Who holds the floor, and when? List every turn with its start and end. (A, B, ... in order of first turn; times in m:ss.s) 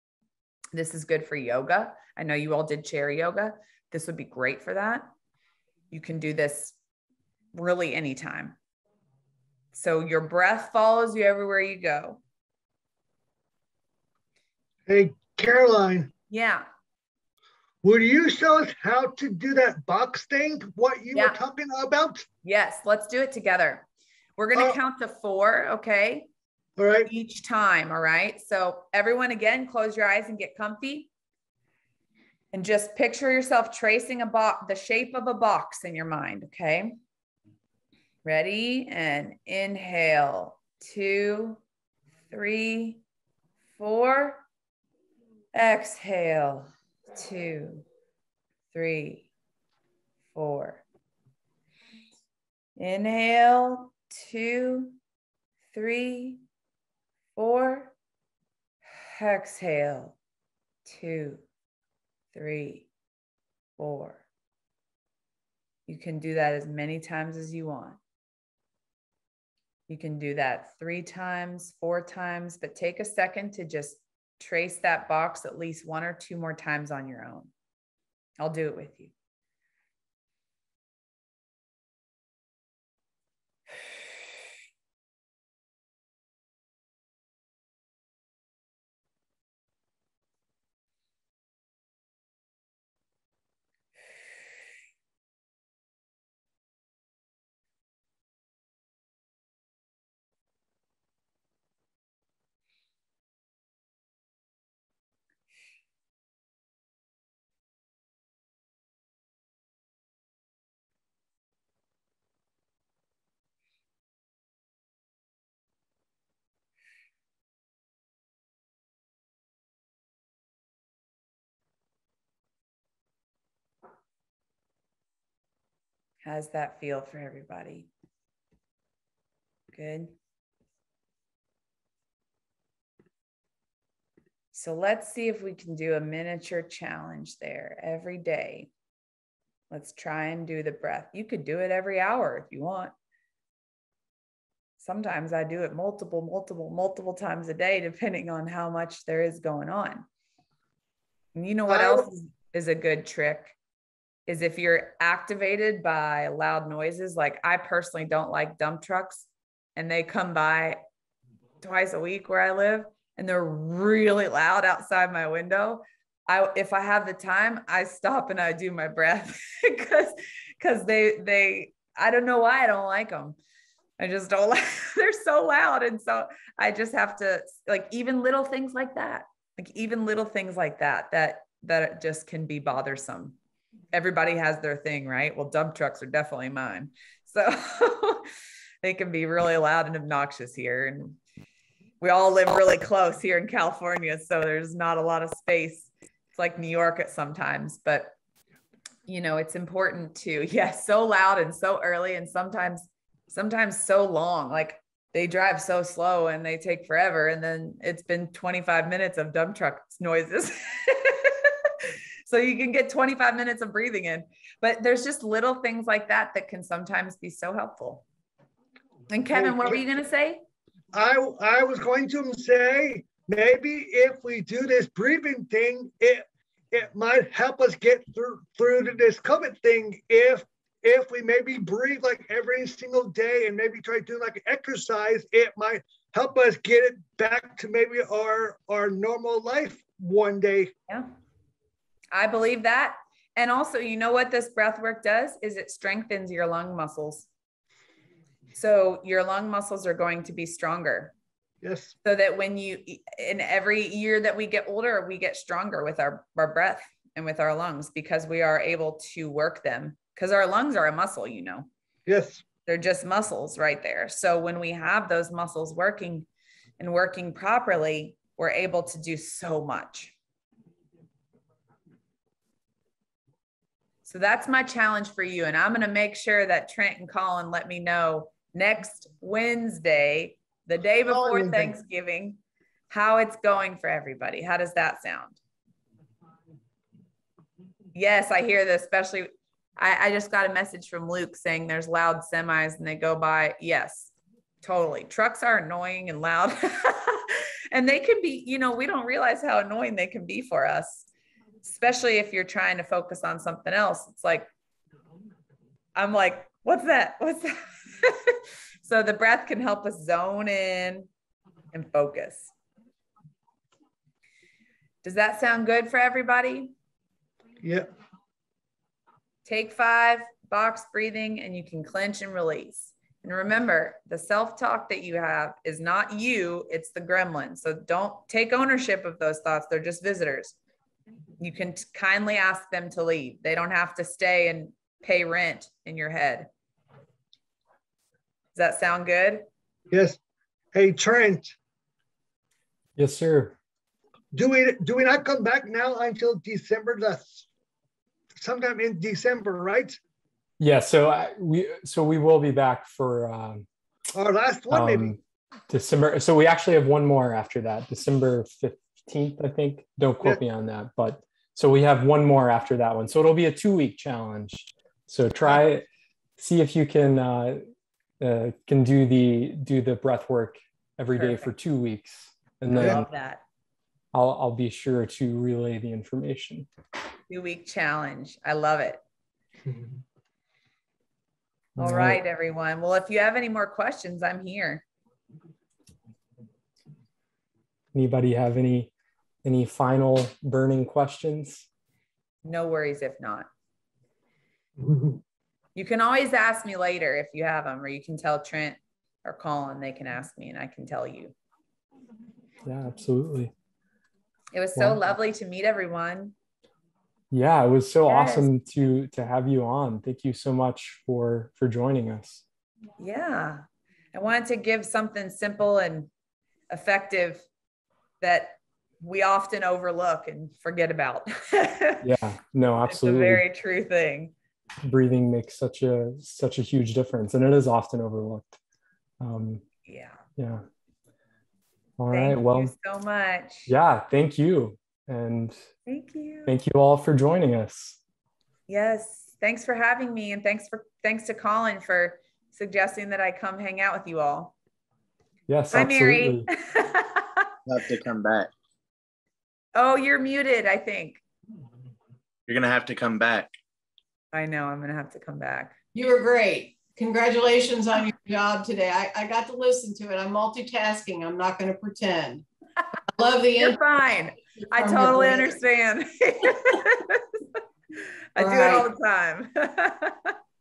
0:00.7-0:05.1 A
0:05.9-0:06.8 A
0:07.5-0:08.6 A
0:09.7-0:12.2 A
0:14.9-0:16.1 B
0:16.3-0:16.6 A
0:17.8-0:22.2 B
0:22.4-0:23.8 A
0:24.4-0:26.3 A
0:26.8-0:27.1 B
0:27.0-0:31.1 A
0:32.5-0:37.0 A
0:38.2-0:41.6 A
0:42.3-0:43.0 A
0:43.8-0:44.4 A
0:45.5-0:47.8 A
0:48.7-0:49.3 A
0:50.3-0:50.8 A
0:52.8-0:55.0 A
0:55.7-0:56.4 A
0:57.4-0:57.9 A
0:58.9-1:00.2 A
1:00.8-1:01.4 A
1:02.3-1:02.9 A
1:03.8-1:04.2 A
1:05.9-1:08.0 A
1:09.9-1:17.5 A
1:18.4-1:19.1 A
2:06.2-2:07.9 A
2:09.7-2:10.1 A
2:14.5-2:18.7 A
2:19.7-2:22.9 A
2:24.8-2:30.0 A
2:31.3-2:33.6 A
2:31.7-2:32.0 B
2:34.3-2:40.8 A
2:41.6-2:53.4 A
2:54.0-3:03.4 A
3:03.9-3:08.3 A
3:08.8-3:11.2 A
3:12.0-3:18.1 A
3:19.1-3:31.7 A
3:32.2-3:38.0 A
3:39.1-3:40.4 A
3:39.3-3:39.8 B
3:40.9-4:00.7 B
4:02.1-4:07.3 A
4:08.5-4:11.1 A
4:11.6-4:11.9 B
4:12.0-4:21.7 A
4:22.1-4:22.4 B
4:22.7-4:26.3 A
4:26.8-4:30.2 A
4:34.0-4:42.4 A
4:41.1-4:41.7 B
4:42.9-4:45.4 A
4:47.9-5:01.1 A
5:01.6-5:04.5 A
5:05.9-5:11.1 A
5:11.7-5:12.5 A
5:15.0-5:16.7 A
5:17.6-5:17.9 B
5:19.4-5:30.6 A
5:31.4-5:36.5 A
5:38.5-5:39.4 A
5:39.9-5:40.2 B
5:40.7-5:41.5 B
5:43.0-5:43.6 C
5:44.3-5:47.5 B
5:48.3-5:50.0 B
5:50.6-5:53.6 C
5:54.1-5:55.1 B
5:54.7-6:05.8 C
6:06.4-6:07.6 C
6:08.2-6:13.0 C
6:11.1-6:11.5 A
6:12.7-6:13.4 A
6:14.1-6:16.7 C
6:17.3-6:19.0 A
6:21.8-6:22.2 C
6:21.8-6:24.8 A
6:27.9-6:28.9 C
6:29.4-6:31.7 C
6:32.4-6:33.5 A
6:34.8-6:35.2 B
6:35.7-6:41.3 A
6:42.6-6:43.5 C
6:44.5-6:46.3 A
6:47.3-6:52.4 C
6:48.1-6:48.5 A
6:53.0-6:56.1 A
6:56.7-6:57.4 A
6:58.2-7:02.1 A
7:02.0-7:03.4 C
7:02.9-7:04.3 A
7:04.8-7:08.6 C
7:09.2-7:09.6 C
7:09.8-7:10.2 A
7:10.4-7:10.6 C
7:12.0-7:12.7 C
7:12.1-7:13.7 A
7:13.7-7:15.6 C
7:15.8-7:16.5 A
7:16.4-7:18.0 C
7:18.7-7:24.5 A
7:25.5-7:26.5 C
7:25.7-7:27.4 A
7:27.6-7:28.5 D
7:29.7-7:31.2 A
7:32.5-7:33.5 D
7:34.3-7:35.8 A
7:35.9-7:42.4 E
7:43.2-7:43.8 E
7:43.6-7:47.2 A
7:44.6-7:45.5 E
7:48.3-7:50.3 A
7:48.4-7:48.9 E